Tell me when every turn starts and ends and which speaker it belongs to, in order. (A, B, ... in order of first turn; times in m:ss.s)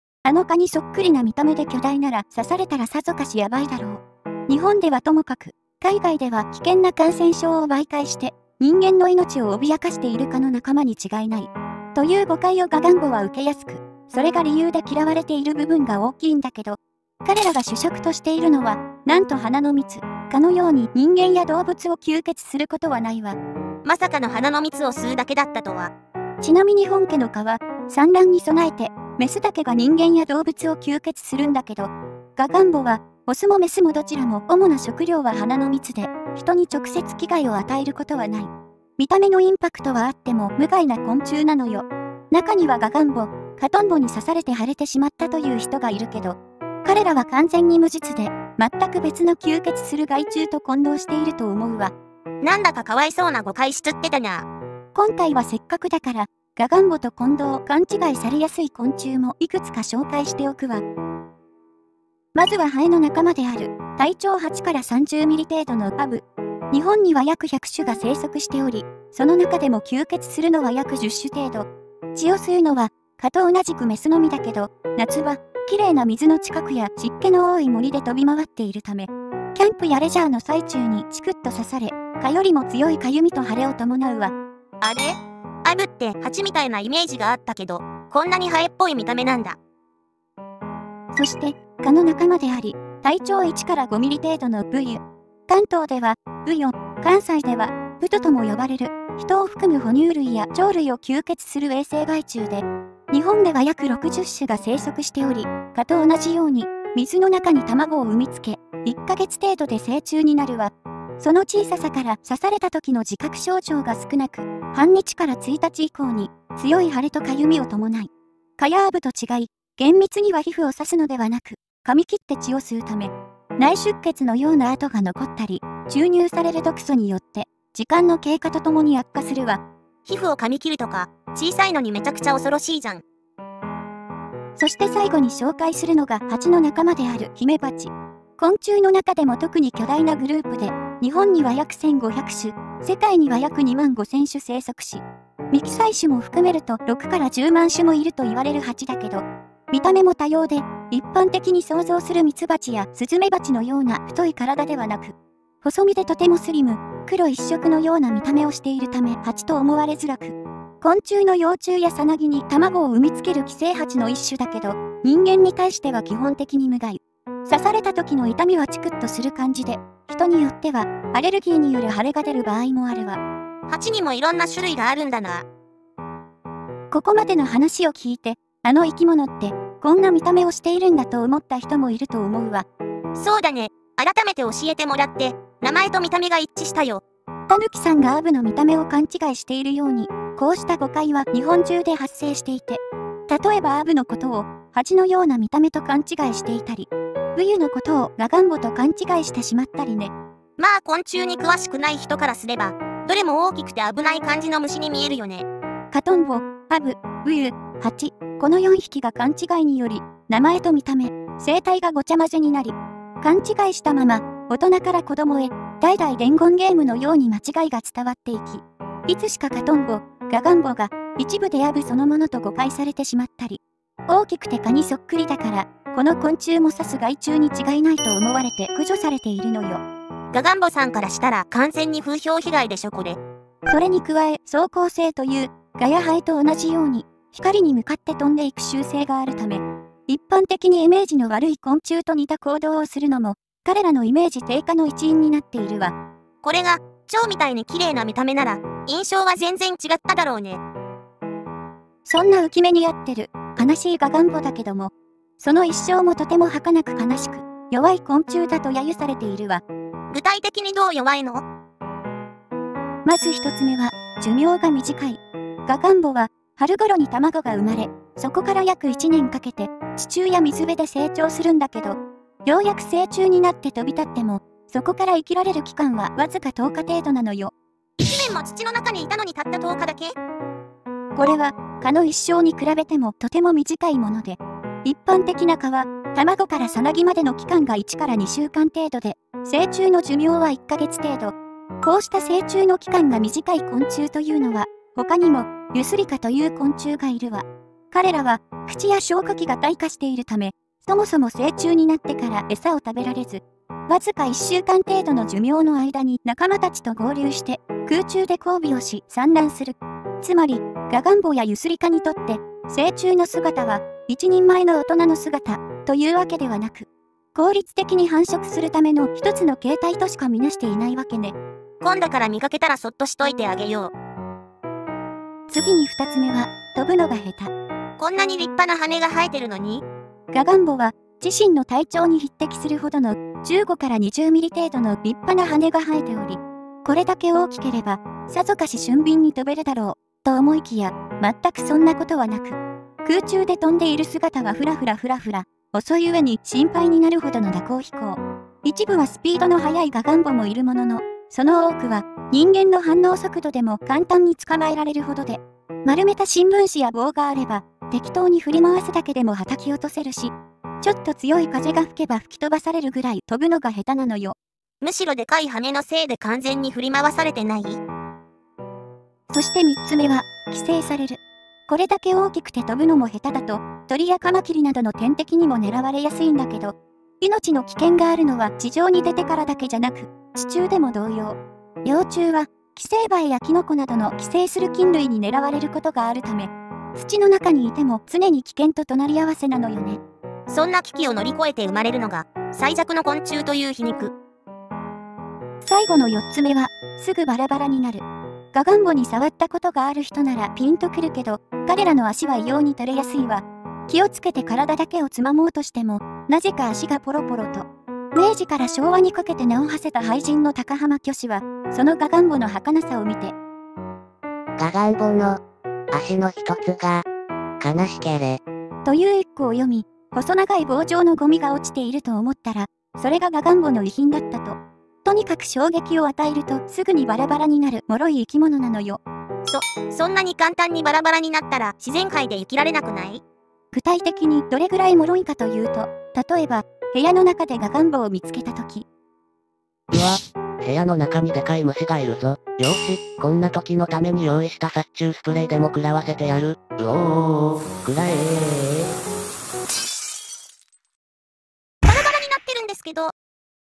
0:00.2-0:23.4 A
0:23.8-0:25.9 B
0:26.4-0:51.9 A
0:52.4-0:54.4 B
0:54.9-1:00.8 A
1:02.3-1:24.3 A
1:24.8-1:29.6 B
1:31.1-2:09.6 A
2:10.0-2:13.0 B
2:14.6-2:53.2 A
2:53.7-2:55.4 B
2:56.9-3:02.6 A
3:03.1-3:07.0 B
3:07.5-3:20.1 A
3:20.6-3:25.4 B
3:25.9-3:49.8 A
3:50.3-3:53.2 B
3:53.7-4:05.9 A
4:06.4-4:10.6 B
4:12.0-4:19.6 A
4:20.1-4:21.4 B
4:23.0-4:37.5 A
4:38.0-4:40.1 B
4:41.2-5:21.4 A
5:21.8-5:23.9 B
5:25.5-5:27.5 A
5:28.0-5:29.8 B
5:30.3-6:04.4 A
6:04.8-6:07.8 B
6:09.3-6:30.0 A
6:30.5-6:34.1 B
6:35.6-6:53.3 A
6:54.6-6:57.0 C
6:57.6-6:58.4 C
6:58.8-7:09.0 A
7:09.4-7:13.2 B
7:13.7-7:18.8 A
7:19.9-7:28.9 C
7:31.8-7:33.1 B